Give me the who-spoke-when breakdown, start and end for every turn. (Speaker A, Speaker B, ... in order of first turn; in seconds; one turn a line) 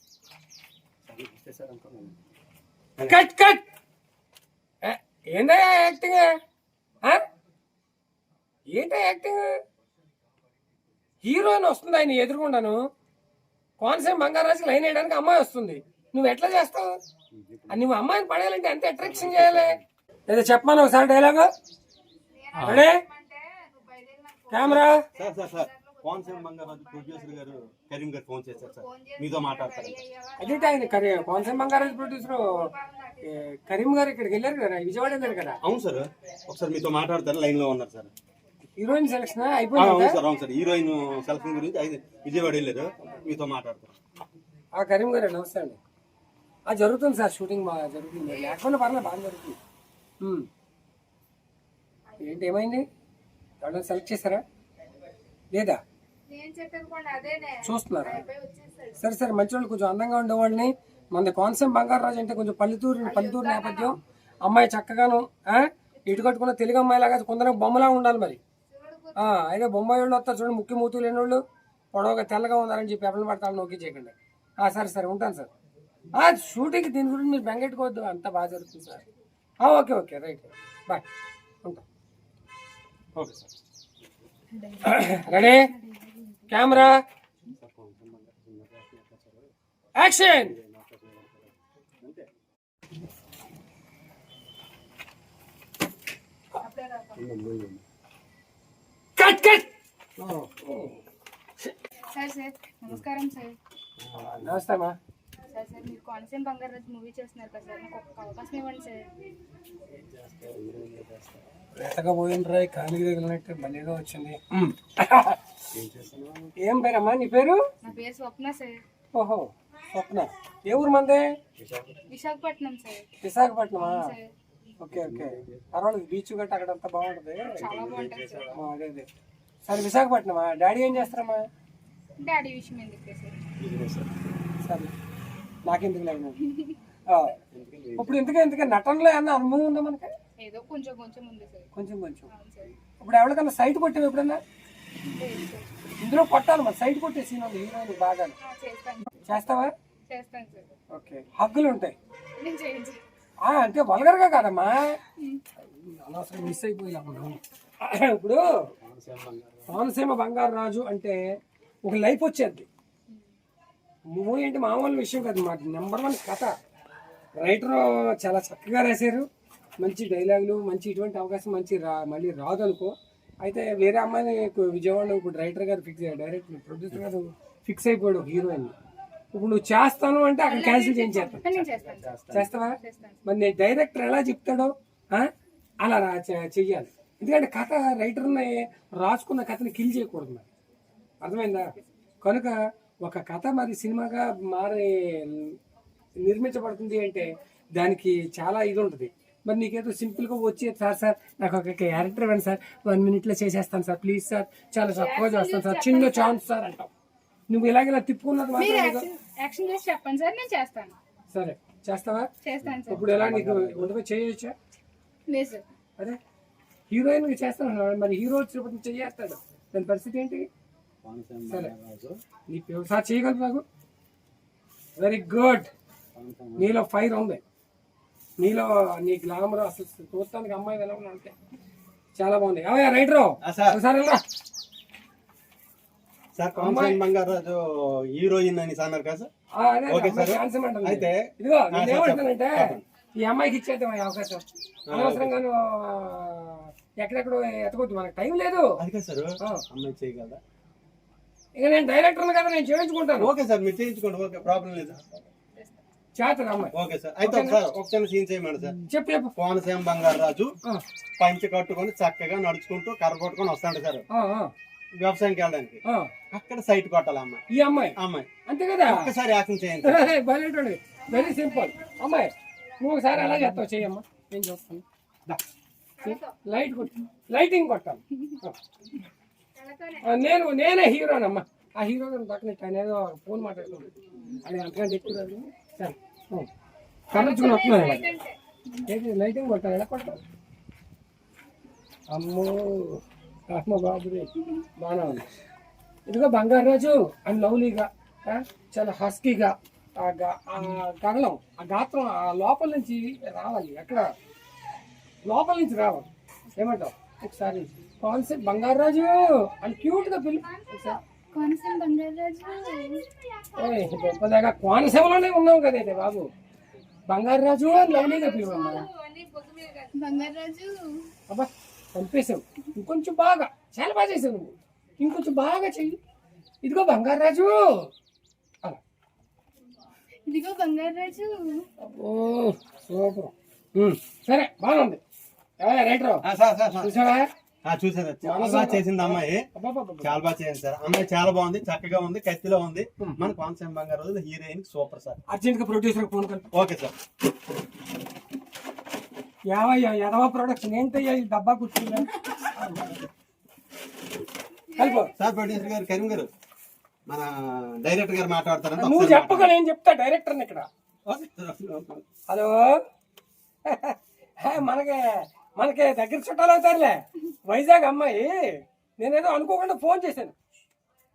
Speaker A: 1.1-2.1
Speaker B: 3.0-3.6
Speaker B: 4.8-6.3
Speaker B: 8.7-9.5
Speaker B: 11.2-12.8
Speaker B: 13.8-17.0
Speaker A: 17.3-17.9
Speaker B: 17.7-21.5
Speaker A: 19.0-19.8
Speaker C: 22.3-27.6
Speaker A: 22.6-22.9
Speaker B: 22.6-23.1
Speaker B: 24.5-25.1
Speaker A: 24.6-30.0
Speaker C: 28.6-33.5
Speaker B: 30.4-32.7
Speaker B: 33.2-35.6
Speaker C: 35.3-35.5
Speaker A: 35.6-38.1
Speaker B: 38.8-40.2
Speaker C: 39.4-39.7
Speaker A: 39.8-44.0
Speaker C: 40.9-41.7
Speaker C: 42.2-43.2
Speaker B: 44.7-45.8
Speaker B: 46.7-49.6
Speaker B: 50.2-50.5
Speaker B: 52.2-52.9
Speaker B: 53.6-54.4
Speaker B: 55.5-55.8
Speaker C: 56.3-59.0
Speaker B: 57.6-58.2
Speaker B: 59.0-68.4
Speaker C: 63.0-64.0
Speaker C: 66.0-66.3
Speaker C: 68.7-69.4
Speaker B: 69.2-71.4
Speaker B: 71.9-75.5
Speaker B: 76.2-79.0
Speaker B: 79.6-81.0
Speaker A: 83.2-83.5
Speaker C: 84.5-86.5
Speaker B: 84.8-85.7
Speaker B: 86.5-87.0
Speaker A: 87.4-89.5
Speaker B: 90.0-90.5
Speaker A: 90.3-92.3
Speaker C: 96.6-97.2
Speaker A: 97.2-97.8
Speaker B: 99.2-99.7
Speaker B: 100.2-101.0
Speaker C: 102.1-103.6
Speaker A: 104.0-104.6
Speaker B: 104.3-105.0
Speaker C: 105.5-109.1
Speaker A: 109.9-111.6
Speaker B: 111.7-115.6
Speaker A: 115.7-116.5
Speaker B: 116.6-117.6
Speaker C: 117.8-118.8
Speaker B: 119.1-121.3
Speaker A: 121.6-122.0
Speaker C: 122.1-123.1
Speaker B: 123.2-124.1
Speaker C: 123.8-124.3
Speaker B: 124.8-127.6
Speaker A: 124.9-125.7
Speaker C: 127.5-128.6
Speaker A: 127.5-128.6
Speaker B: 128.5-129.1
Speaker B: 129.7-131.5
Speaker C: 132.2-133.4
Speaker A: 133.6-134.2
Speaker B: 134.6-134.9
Speaker B: 135.7-136.4
Speaker C: 136.4-136.8
Speaker B: 137.1-137.4
Speaker A: 137.5-138.3
Speaker B: 138.0-140.1
Speaker C: 140.4-141.7
Speaker B: 141.7-142.3
Speaker C: 142.3-142.7
Speaker B: 143.0-144.4
Speaker C: 145.1-145.7
Speaker B: 146.0-148.4
Speaker C: 148.4-149.4
Speaker B: 149.2-149.7
Speaker C: 150.1-150.7
Speaker B: 150.9-152.0
Speaker C: 152.4-153.0
Speaker B: 153.4-155.0
Speaker C: 155.2-155.4
Speaker B: 155.6-158.4
Speaker A: 158.8-159.8
Speaker B: 159.7-161.2
Speaker B: 161.8-162.7
Speaker B: 164.1-166.5
Speaker B: 167.4-169.3
Speaker B: 169.8-178.7
Speaker B: 179.3-181.4
Speaker C: 180.4-183.2
Speaker A: 181.4-182.5
Speaker B: 182.3-185.3
Speaker B: 185.8-190.5
Speaker B: 191.2-195.6
Speaker B: 196.2-206.9
Speaker C: 204.9-206.4
Speaker B: 207.5-209.1
Speaker C: 208.6-210.9
Speaker B: 211.3-212.3
Speaker C: 212.4-213.0
Speaker A: 212.6-213.9
Speaker B: 212.9-214.5
Speaker C: 215.3-215.7
Speaker B: 216.9-220.5
Speaker A: 221.0-222.2
Speaker B: 222.5-223.6
Speaker B: 225.0-225.7
Speaker A: 226.2-226.7
Speaker B: 226.6-227.4
Speaker B: 228.4-231.3
Speaker B: 232.2-234.2
Speaker A: 233.4-233.8
Speaker A: 236.4-239.3
Speaker B: 236.6-237.0
Speaker B: 239.6-248.8
Speaker A: 239.9-242.8
Speaker A: 244.9-245.4
Speaker A: 248.8-250.4
Speaker B: 251.6-253.3
Speaker A: 253.2-255.0
Speaker B: 256.2-257.6
Speaker A: 256.7-258.8
Speaker B: 258.9-259.3
Speaker A: 259.4-260.6
Speaker A: 261.2-264.1
Speaker B: 264.1-264.5
Speaker A: 264.9-267.4
Speaker B: 265.9-266.1
Speaker B: 267.5-269.1
Speaker A: 268.0-268.3
Speaker A: 268.9-270.1
Speaker B: 269.8-275.4
Speaker C: 271.1-272.1
Speaker C: 276.0-276.4
Speaker B: 276.0-278.6
Speaker C: 279.6-280.2
Speaker B: 280.0-286.5
Speaker B: 287.1-288.1
Speaker C: 287.1-288.4
Speaker B: 288.9-290.2
Speaker B: 292.1-295.3
Speaker B: 296.1-304.1
Speaker B: 305.2-311.0
Speaker C: 310.3-314.1
Speaker B: 313.6-316.3
Speaker B: 317.1-318.9
Speaker C: 317.7-321.1
Speaker B: 321.3-326.0
Speaker B: 326.6-327.9
Speaker C: 330.3-331.7
Speaker B: 331.8-335.0
Speaker B: 335.6-336.2
Speaker A: 336.2-336.9
Speaker B: 336.8-337.3
Speaker A: 337.6-339.5
Speaker B: 338.2-340.2
Speaker A: 340.0-345.2
Speaker B: 343.0-343.3
Speaker B: 345.3-346.5
Speaker A: 346.5-346.9
Speaker B: 349.5-353.0
Speaker C: 354.7-355.1
Speaker B: 354.7-355.1
Speaker A: 355.2-356.3
Speaker A: 357.1-359.5
Speaker B: 358.8-360.7
Speaker A: 361.1-362.0
Speaker B: 362.3-362.8
Speaker B: 363.6-370.3